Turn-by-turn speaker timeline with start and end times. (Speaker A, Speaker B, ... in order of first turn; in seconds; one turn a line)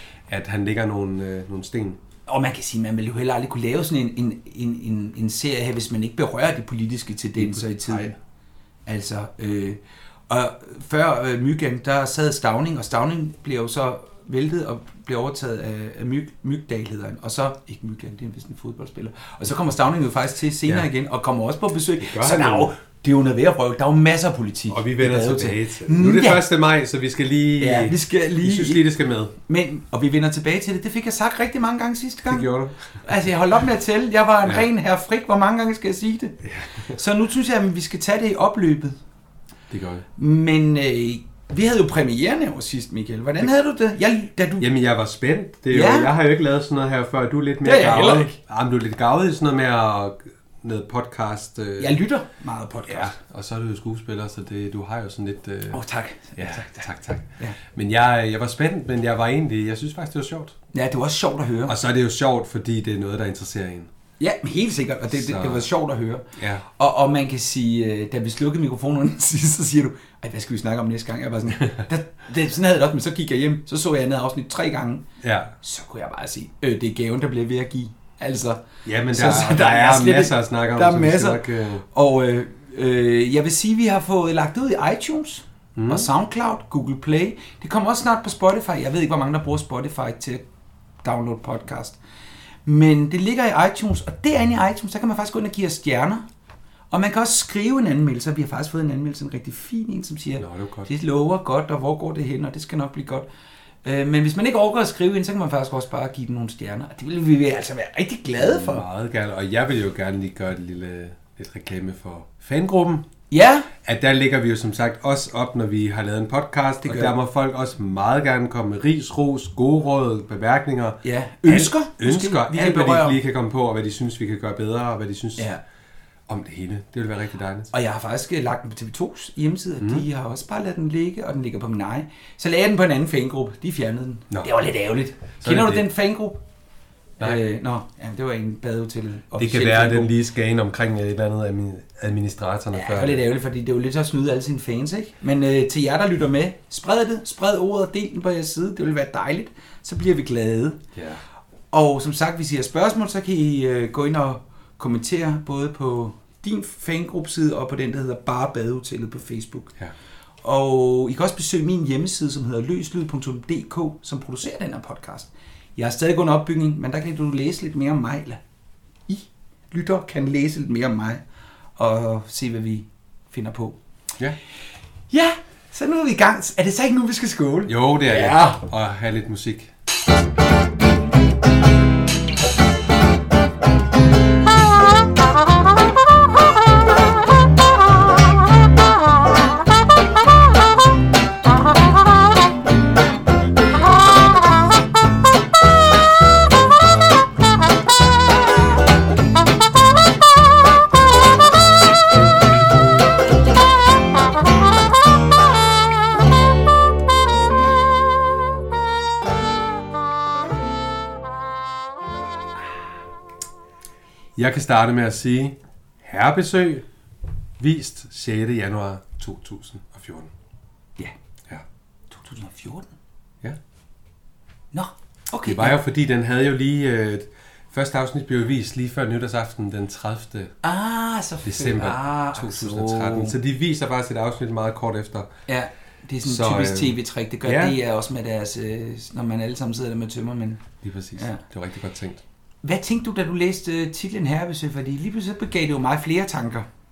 Speaker A: 0.3-2.0
Speaker B: 2.3-8.1
Speaker A: 7.3-8.1
Speaker B: 8.9-26.4
Speaker A: 22.0-22.7
Speaker A: 24.7-29.3
Speaker B: 27.6-28.8
Speaker B: 29.5-32.5
Speaker A: 32.3-33.0
Speaker B: 33.0-39.0
Speaker A: 36.4-37.0
Speaker A: 39.7-40.0
Speaker B: 40.2-44.7
Speaker A: 44.6-52.0
Speaker B: 45.7-46.1
Speaker B: 47.6-48.3
Speaker B: 51.8-53.1
Speaker A: 52.9-55.8
Speaker B: 55.7-57.6
Speaker A: 56.4-60.5
Speaker B: 60.7-61.8
Speaker A: 61.6-63.9
Speaker B: 64.2-75.0
Speaker A: 65.1-65.6
Speaker A: 66.4-66.6
Speaker A: 75.2-75.5
Speaker B: 75.6-90.4
Speaker A: 78.8-81.8
Speaker A: 85.8-86.1
Speaker B: 91.0-92.0
Speaker B: 92.6-96.2
Speaker B: 96.9-103.2
Speaker A: 100.4-100.9
Speaker B: 103.8-108.8
Speaker A: 108.4-113.0
Speaker B: 113.3-113.7
Speaker A: 113.8-125.5
Speaker B: 116.8-117.1
Speaker B: 121.0-123.2
Speaker A: 126.3-127.7
Speaker B: 127.7-136.4
Speaker A: 135.4-135.8
Speaker B: 137.2-140.1
Speaker A: 139.4-143.2
Speaker B: 142.7-150.8
Speaker A: 150.9-151.2
Speaker B: 151.7-159.7
Speaker B: 160.4-168.4
Speaker B: 169.1-171.2
Speaker B: 171.8-173.8
Speaker B: 175.1-178.6
Speaker A: 177.7-179.7
Speaker A: 214.3-216.8
Speaker A: 217.6-220.3
Speaker B: 222.1-222.9
Speaker B: 224.7-225.8
Speaker A: 225.4-230.5
Speaker B: 230.6-233.3
Speaker A: 231.4-235.3
Speaker B: 235.5-240.6
Speaker A: 236.2-237.8
Speaker A: 240.8-242.2
Speaker B: 241.2-241.4
Speaker B: 242.6-246.7